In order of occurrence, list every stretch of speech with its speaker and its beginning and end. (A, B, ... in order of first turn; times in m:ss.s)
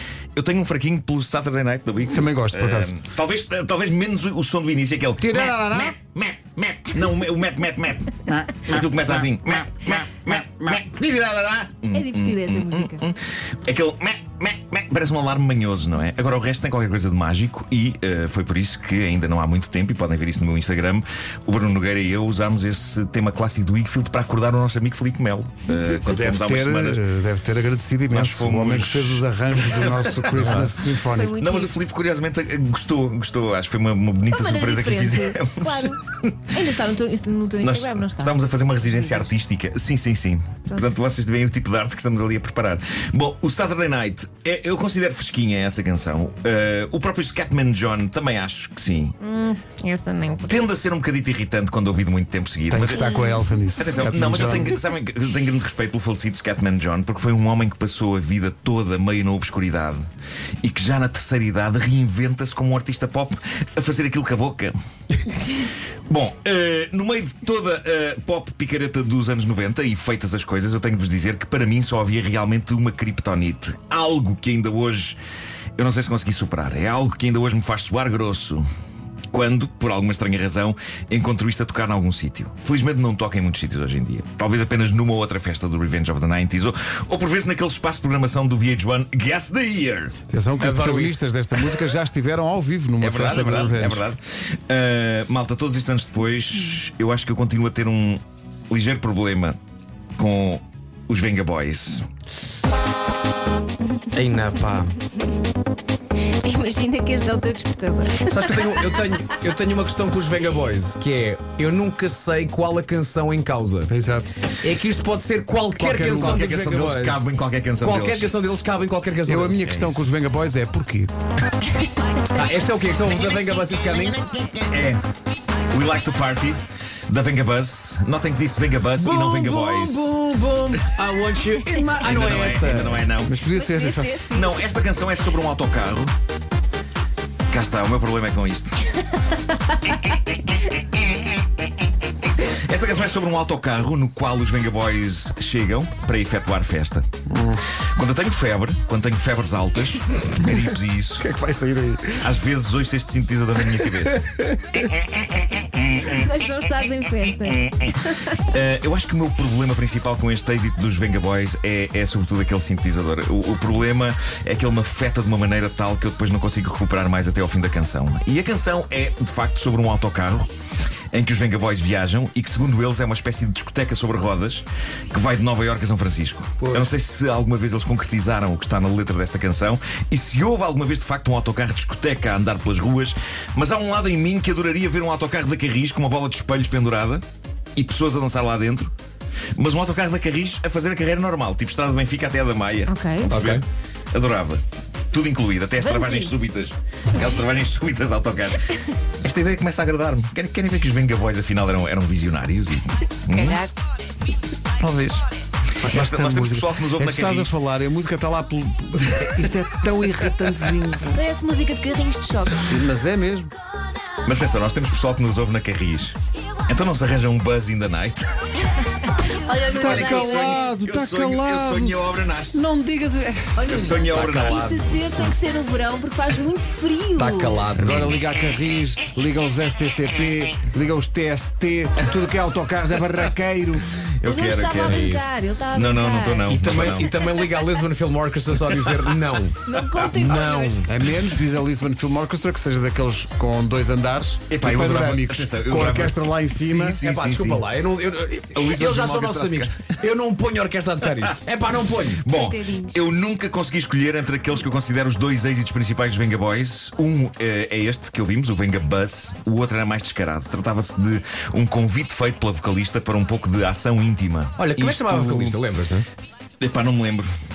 0:00.4-0:27.0 A
0:02.1-0:02.9 B
0:05.2-0:06.0 B
0:11.9-0:13.0 C
0:25.9-0:31.4 B
0:28.1-0:30.8 A
0:31.1-0:31.7 C
0:31.4-0:36.6 A
0:34.3-0:39.3 C
0:37.6-0:49.2 A
0:40.7-0:41.0 C
0:49.2-0:50.7 C
0:50.5-0:53.1 A
0:52.7-0:54.8 B
0:52.9-0:54.6 C
0:53.8-1:00.1 A
1:00.6-1:04.8 A
1:05.6-1:15.2 A
1:15.8-1:18.6 A
1:19.3-1:30.1 A
1:30.3-1:34.0 B
1:30.6-1:31.3 D
1:33.0-1:39.6 A
1:33.4-1:33.7 C
1:40.2-1:42.1 A
1:44.1-1:45.0 D
1:46.2-1:48.8 C
1:48.2-1:53.9 D
1:53.9-1:54.3 B
1:54.6-1:57.3 D
1:55.8-1:58.4 A
1:55.8-1:56.5 B
1:57.8-1:59.7 D
1:59.3-2:01.1 B
1:59.6-2:00.1 A
2:02.3-2:04.2 D
2:04.2-2:05.0 A
2:05.7-2:10.1 A
2:09.0-2:13.0 D
2:12.0-2:13.4 A
2:13.2-2:14.3 B
2:13.5-2:14.7 C
2:14.3-2:16.1 A
2:17.5-2:18.8 A
2:22.4-2:27.1 A
2:27.3-2:27.6 B
2:27.9-2:31.3 A
2:31.2-2:32.3 B
2:32.2-2:34.3 A
2:33.8-2:34.8 B
2:35.2-2:35.6 A
2:36.0-2:38.4 C
2:38.4-2:50.5 A
2:51.1-3:07.2 A
2:56.6-2:56.9 B
3:07.8-3:08.9 A
3:09.6-3:23.6 A
3:12.9-3:13.3 C
3:13.3-3:13.6 D
3:15.8-3:16.5 C
3:23.3-3:23.7 C
3:24.8-3:25.3 A
3:25.8-3:31.2 B
3:25.8-3:27.5 A
3:31.1-3:32.8 C
3:32.6-3:33.5 B
3:34.2-3:38.3 A
3:39.2-3:40.6 C
3:39.6-3:42.0 B
3:39.8-3:42.7 A
3:42.5-3:43.7 B
3:43.6-3:47.6 C
3:43.7-3:44.9 A
3:43.9-3:45.3 D
3:47.2-3:48.2 D
3:47.8-3:53.9 B
3:54.2-3:55.1 A
3:54.2-3:56.6 C
3:54.8-3:55.3 D
3:55.7-3:57.1 A
3:56.5-4:00.9 D
3:59.6-4:00.9 C
3:59.7-4:00.4 A
4:00.8-4:07.0 B
4:04.5-4:07.7 A
4:07.0-4:12.2 D
4:08.5-4:09.8 A
4:11.9-4:25.6 A
4:12.3-4:13.0 C
4:24.6-4:26.1 D
4:26.6-4:27.3 A